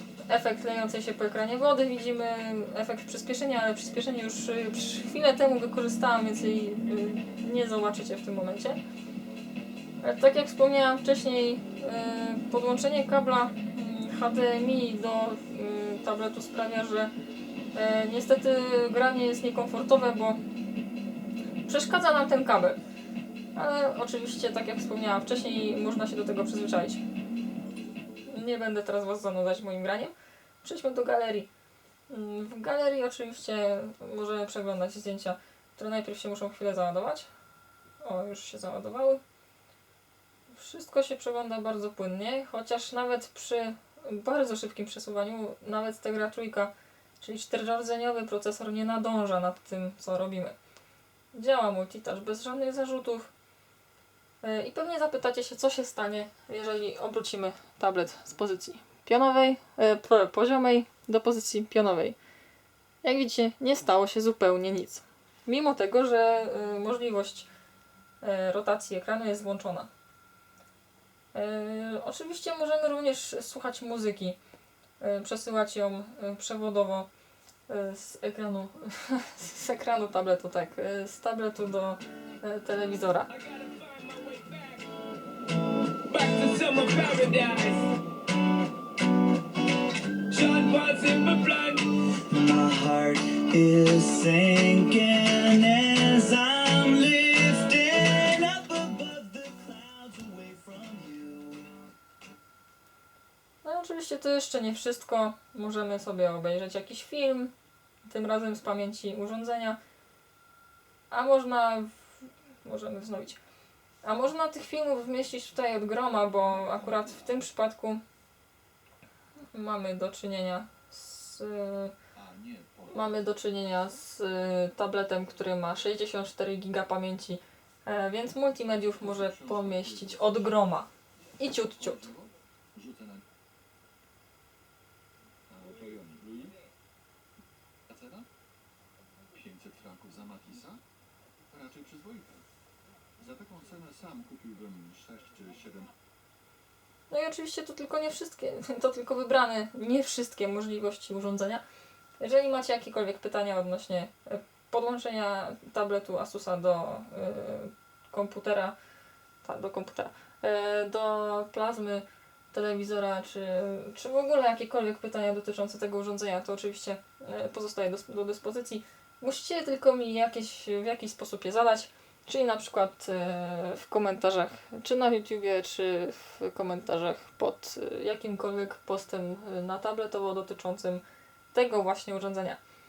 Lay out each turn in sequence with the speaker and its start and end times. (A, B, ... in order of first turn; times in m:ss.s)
0:00.3-0:08.8 A
0:10.0-0:17.1 A
0:17.7-0:20.4 A
0:21.7-0:22.8 A
0:23.6-0:27.0 A
0:28.3-0:31.5 A
0:32.1-0:37.3 A
0:38.0-0:39.2 A
0:40.5-0:50.6 A
0:51.3-0:53.3 A
0:54.4-1:02.2 A
1:03.0-1:07.5 A
1:08.2-1:09.9 A
1:11.3-1:14.4 A
1:15.0-1:17.1 A
1:17.7-1:23.3 A
1:23.3-1:24.9 B
1:26.0-1:28.1 B
1:30.3-1:31.9 B
1:31.9-1:41.8 C
1:43.6-1:47.5 A
1:48.1-1:49.8 A
1:51.1-1:52.1 A
1:52.6-1:53.4 A
1:54.0-1:58.0 A
1:56.5-1:57.3 D
1:59.5-2:02.0 A
2:02.2-2:03.1 D
2:02.9-2:12.1 A
2:08.9-2:10.7 D
2:11.6-2:13.2 D
2:15.5-2:16.5 D
2:17.9-2:18.3 D
2:19.3-2:20.8 D
2:21.5-2:22.4 D
2:23.2-2:25.9 D
2:27.1-2:31.6 A
2:32.2-2:38.8 A
2:39.4-3:02.6 A